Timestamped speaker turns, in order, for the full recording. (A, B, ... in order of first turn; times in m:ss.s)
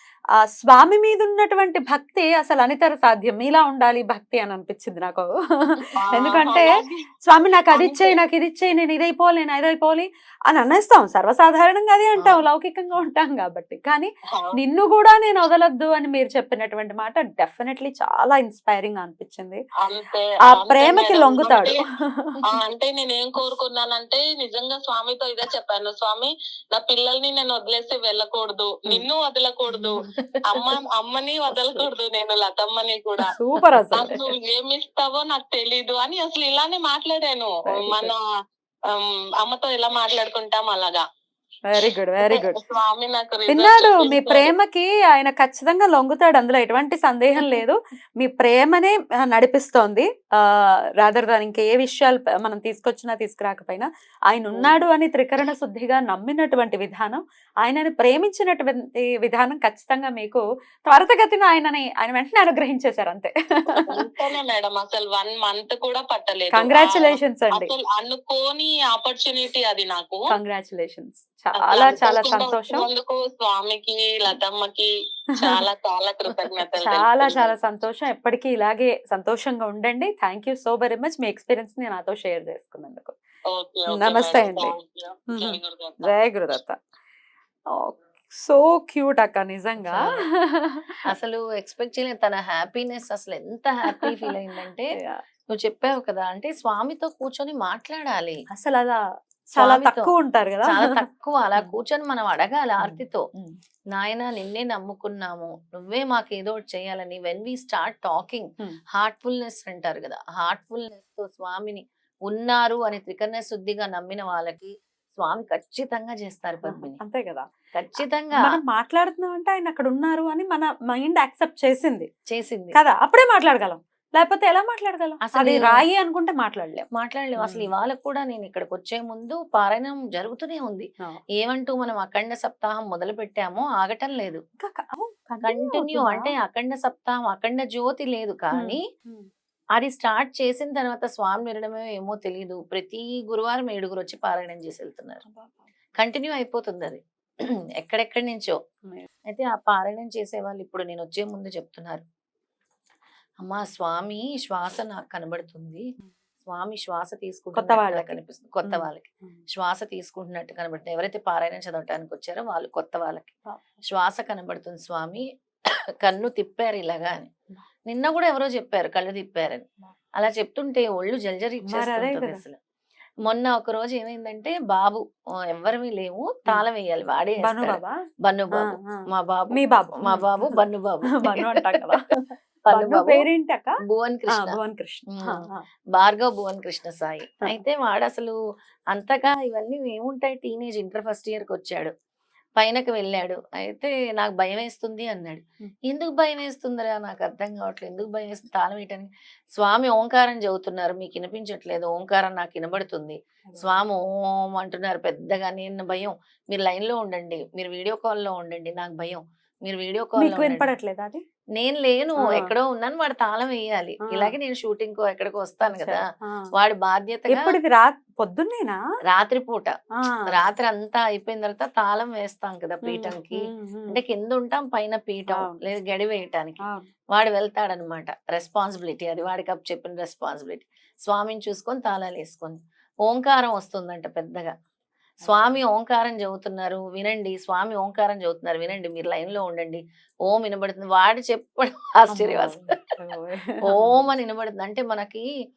0:00.4-0:06.7 A
0:06.0-0:07.0 B
0:07.2-0:19.6 A
0:07.7-0:08.2 B
0:12.2-0:12.4 C
0:19.8-0:21.8 B
0:20.4-0:22.4 A
0:22.6-0:33.3 B
0:29.7-0:30.7 C
0:33.3-0:34.2 A
0:33.9-0:38.2 B
0:37.7-0:38.1 A
0:38.9-0:41.0 B
0:41.7-0:42.6 A
0:42.3-0:44.5 B
0:43.5-1:04.1 A
0:54.5-0:54.8 C
1:03.7-1:10.2 B
1:06.5-1:07.7 A
1:10.3-1:12.8 A
1:11.6-1:17.5 B
1:16.8-1:23.1 A
1:23.5-1:26.1 B
1:23.9-1:24.7 A
1:25.3-1:26.8 A
1:27.8-1:30.9 A
1:29.8-1:30.2 C
1:31.1-1:34.9 C
1:34.0-1:34.3 A
1:35.5-1:38.4 C
1:38.5-1:39.0 A
1:39.5-1:41.0 A
1:39.6-1:43.3 C
1:42.8-1:43.6 A
1:43.9-1:57.0 C
1:56.6-1:57.5 A
1:57.7-1:58.6 C
1:58.3-2:02.1 A
2:02.3-2:02.8 C
2:02.7-2:06.8 A
2:05.2-2:05.8 C
2:06.9-2:14.4 C
2:07.4-2:07.7 A
2:14.6-2:16.3 A
2:15.4-2:18.8 C
2:18.5-2:19.3 A
2:19.8-2:25.2 C
2:25.2-2:25.7 A
2:26.0-2:27.0 C
2:27.8-2:28.6 C
2:29.3-2:32.0 C
2:33.4-2:35.8 C
2:36.4-2:43.3 C
2:37.5-2:39.4 A
2:43.4-2:43.8 A
2:43.9-2:45.2 C
2:46.0-2:47.3 C
2:47.9-2:49.6 C
2:50.2-2:52.6 C
2:51.7-2:52.4 A
2:53.2-3:01.8 C
2:57.4-2:58.0 A
2:58.5-3:00.6 A
3:01.2-3:02.1 A
3:02.7-3:03.3 C
3:02.7-3:03.7 A
3:03.8-3:04.6 C
3:04.3-3:05.6 A
3:05.1-3:08.4 C
3:08.9-3:11.9 C
3:12.6-3:30.7 C
3:23.5-3:23.8 A
3:30.2-3:31.2 A
3:31.6-3:36.0 C
3:32.2-3:32.5 A
3:34.1-3:34.4 A
3:35.6-3:36.5 A
3:36.5-3:37.6 C
3:37.3-3:38.8 A
3:39.1-3:39.7 C
3:40.3-3:46.6 C
3:42.8-3:44.0 A
3:45.3-3:45.6 A
3:46.6-3:46.9 A
3:47.1-3:54.5 C
3:55.2-3:55.6 A
3:55.2-4:02.8 C
4:02.1-4:04.1 A
4:03.7-4:05.2 C